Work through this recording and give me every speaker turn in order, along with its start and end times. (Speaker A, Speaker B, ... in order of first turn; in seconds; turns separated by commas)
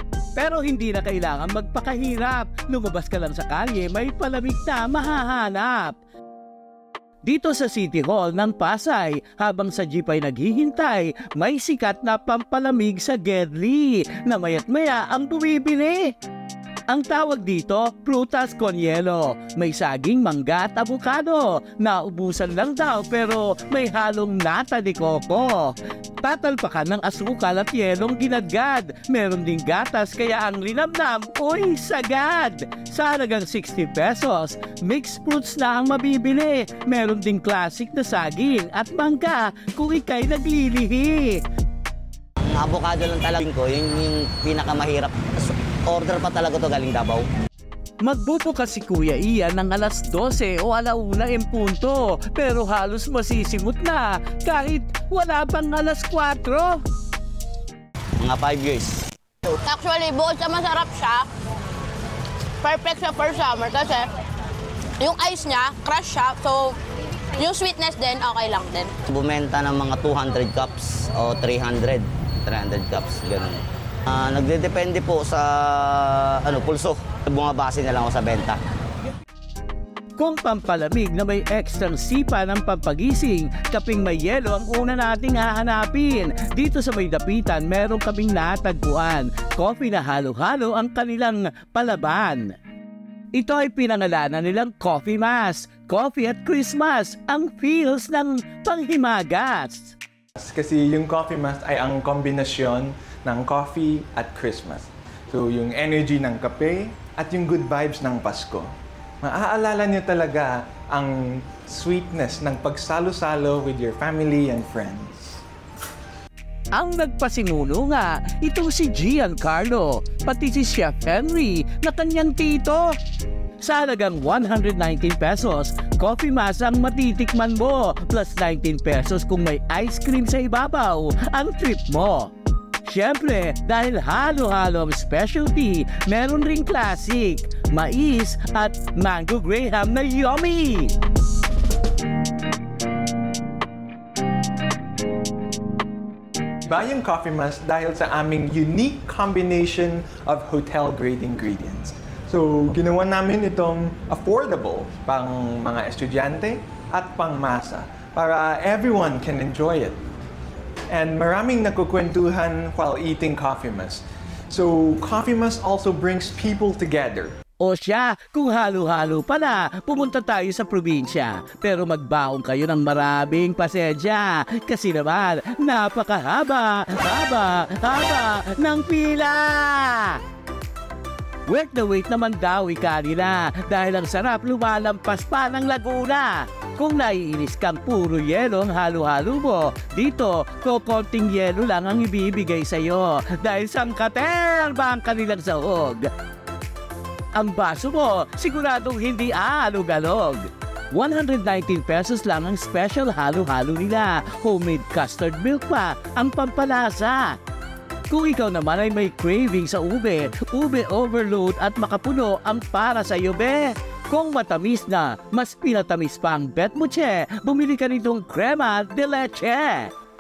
Speaker A: 0.4-6.0, Speaker A: 7.2-16.1, Speaker A: 16.9-41.4, Speaker B: 42.5-47.3, Speaker A: 48.0-56.8, Speaker B: 58.2-59.0, Speaker C: 59.5-61.3, Speaker C: 62.6-64.1, Speaker C: 65.0-66.8, Speaker C: 67.4-69.0, Speaker B: 69.1-78.6, Speaker A: 80.2-92.5, Speaker A: 93.3-100.0, Speaker D: 100.4-108.7, Speaker D: 109.2-115.4, Speaker A: 116.7-123.0, Speaker A: 123.6-132.3, Speaker A: 132.8-141.0, Speaker D: 146.7-160.0, Speaker D: 160.9-167.3, Speaker A: 167.6-180.2, Speaker A: 181.5-196.1, Speaker A: 197.3-207.4, Speaker A: 208.1-219.9